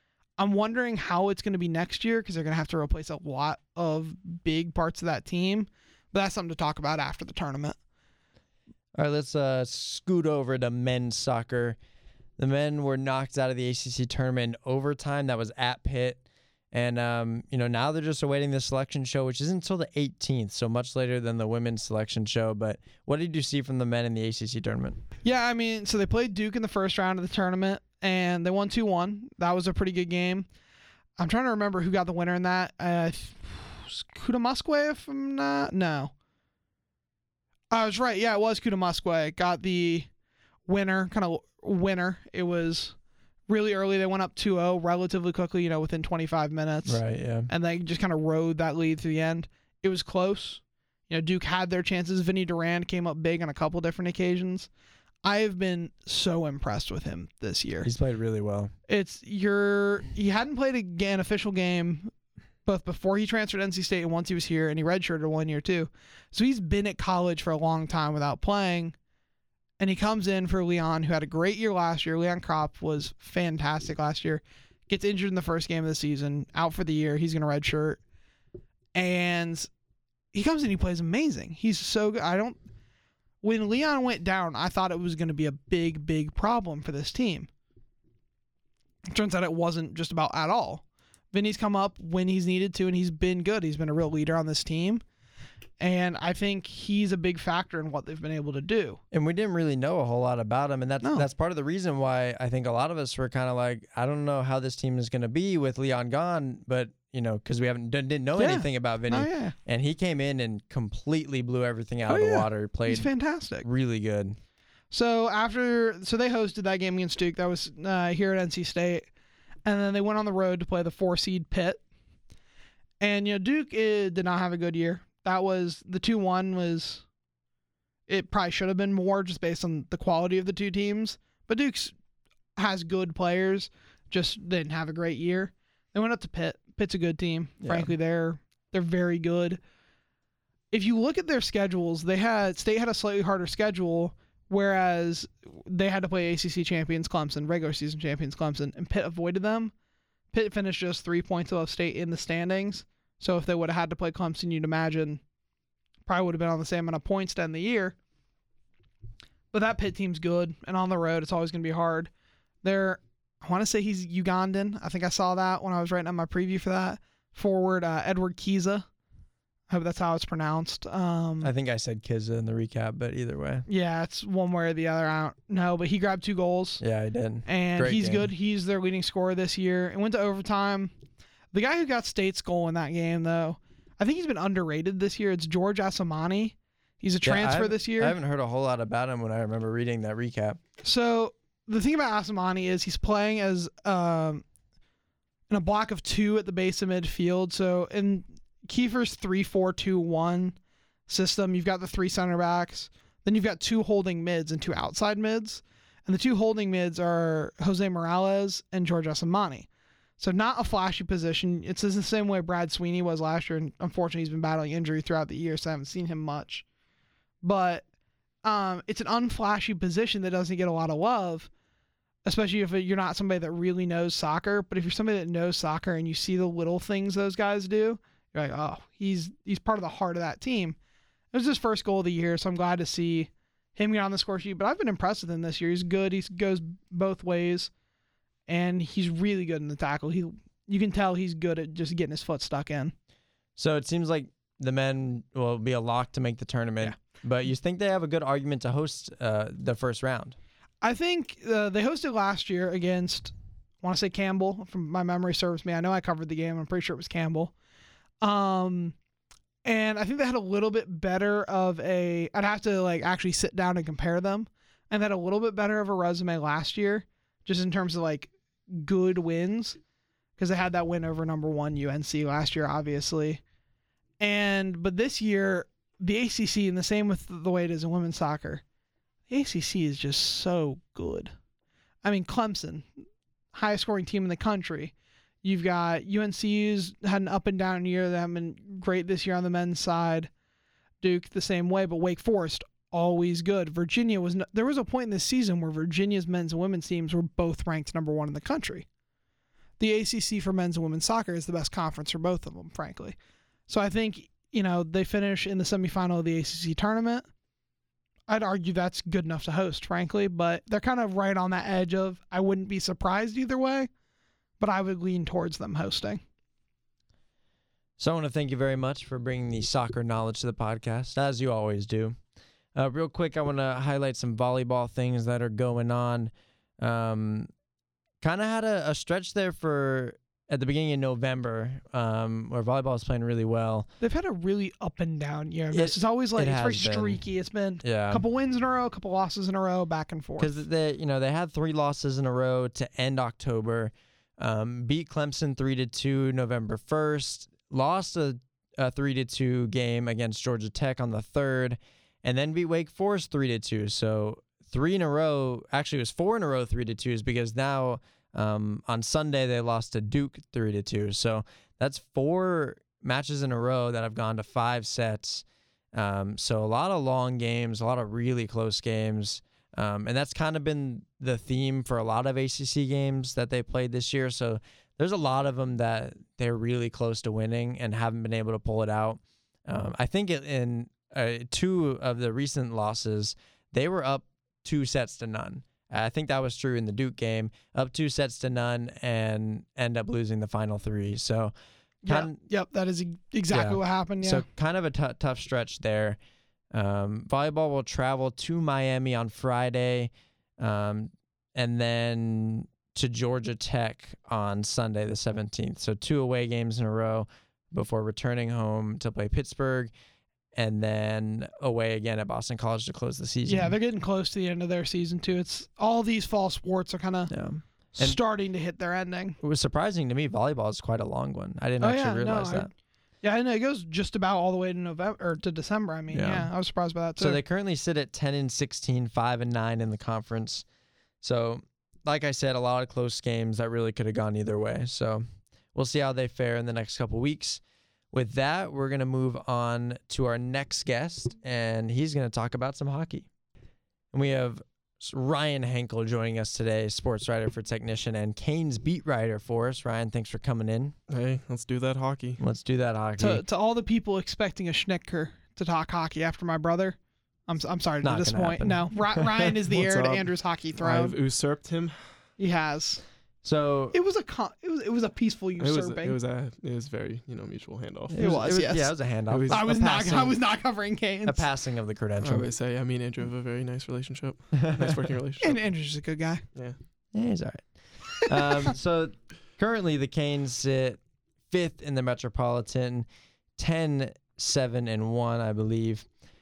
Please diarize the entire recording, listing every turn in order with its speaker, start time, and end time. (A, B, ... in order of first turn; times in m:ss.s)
0:00.4-0:07.8 A
0:09.0-0:11.8 B
0:12.4-0:16.2 B
0:16.7-0:25.0 B
0:25.2-0:30.5 A
0:31.2-0:36.1 A
0:37.7-0:40.1 A
0:40.7-0:43.0 A
0:43.5-0:54.7 A
0:46.9-0:47.5 B
0:55.2-0:57.9 A
0:57.8-0:58.7 B
0:58.9-1:02.1 A
1:02.6-1:09.0 A
1:09.8-1:18.0 A
1:19.0-1:19.7 A
1:20.3-1:22.6 A
1:23.4-1:27.5 A
1:29.1-1:35.0 A
1:35.8-1:39.0 A
1:39.1-1:53.1 B
1:48.4-1:49.6 A
1:52.1-1:53.6 A
1:53.6-1:54.4 B
1:54.9-1:59.1 A
1:59.6-2:01.8 A
2:03.0-2:07.0 A
2:08.1-2:12.0 A
2:12.6-2:19.6 A
2:17.6-2:17.9 B
2:20.7-2:29.7 A
2:30.3-2:35.2 A
2:36.1-2:38.0 A
2:39.5-2:42.1 A
2:42.6-2:48.9 A
2:49.7-2:51.5 A
2:51.4-2:53.6 B
2:53.7-2:56.8 A
2:56.8-2:58.3 B
2:57.5-3:00.9 A
3:01.5-3:08.1 A
3:07.2-3:10.6 B
3:10.8-3:14.4 A
3:15.5-3:20.6 A
3:21.1-3:29.7 A
3:30.2-3:36.6 A
3:37.4-3:37.8 A
3:38.4-3:41.5 A
3:42.2-3:50.8 A
3:51.3-3:57.7 A
3:58.5-4:02.9 A
4:03.6-4:10.4 B
4:10.8-4:17.5 A
4:18.2-4:19.0 A
4:19.6-4:29.8 A
4:30.4-4:33.4 A
4:34.2-4:38.6 A
4:39.3-4:41.3 A
4:42.0-4:42.9 A
4:43.5-4:50.3 A
4:51.0-4:58.9 A
4:59.8-5:03.2 A
5:03.7-5:07.3 A
5:08.3-5:13.9 A
5:14.6-5:16.2 A
5:18.0-5:22.2 B
5:22.8-5:27.5 B
5:28.2-5:33.9 B
5:34.0-5:40.6 A
5:35.7-5:37.2 B
5:37.8-5:38.2 B
5:40.4-6:31.5 B
6:32.0-6:34.5 A
6:32.1-6:32.4 B
6:33.5-6:36.2 B
6:36.7-6:49.9 B
6:50.6-6:53.8 B
6:53.5-6:57.3 A
6:57.3-6:58.2 B
6:58.0-6:59.4 A
6:59.4-7:02.7 B
7:01.8-7:02.7 A
7:03.2-7:07.4 A
7:06.1-7:06.5 B
7:07.2-7:10.6 B
7:11.2-7:17.6 B
7:18.1-7:23.3 B
7:24.1-7:30.9 B
7:31.1-7:32.4 C
7:32.4-7:33.4 B
7:33.2-7:41.2 A
7:38.0-7:39.5 B
7:39.7-7:42.0 C
7:42.4-7:43.0 A
7:43.4-7:43.9 B
7:43.9-7:46.2 A
7:45.6-7:48.6 C
7:48.1-7:50.4 B
7:48.2-7:48.9 A
7:49.3-7:49.8 C
7:49.5-7:51.4 A
7:51.2-7:52.5 B
7:52.2-7:55.6 C
7:54.6-7:55.0 B
7:55.4-7:56.4 A
7:57.1-8:06.1 B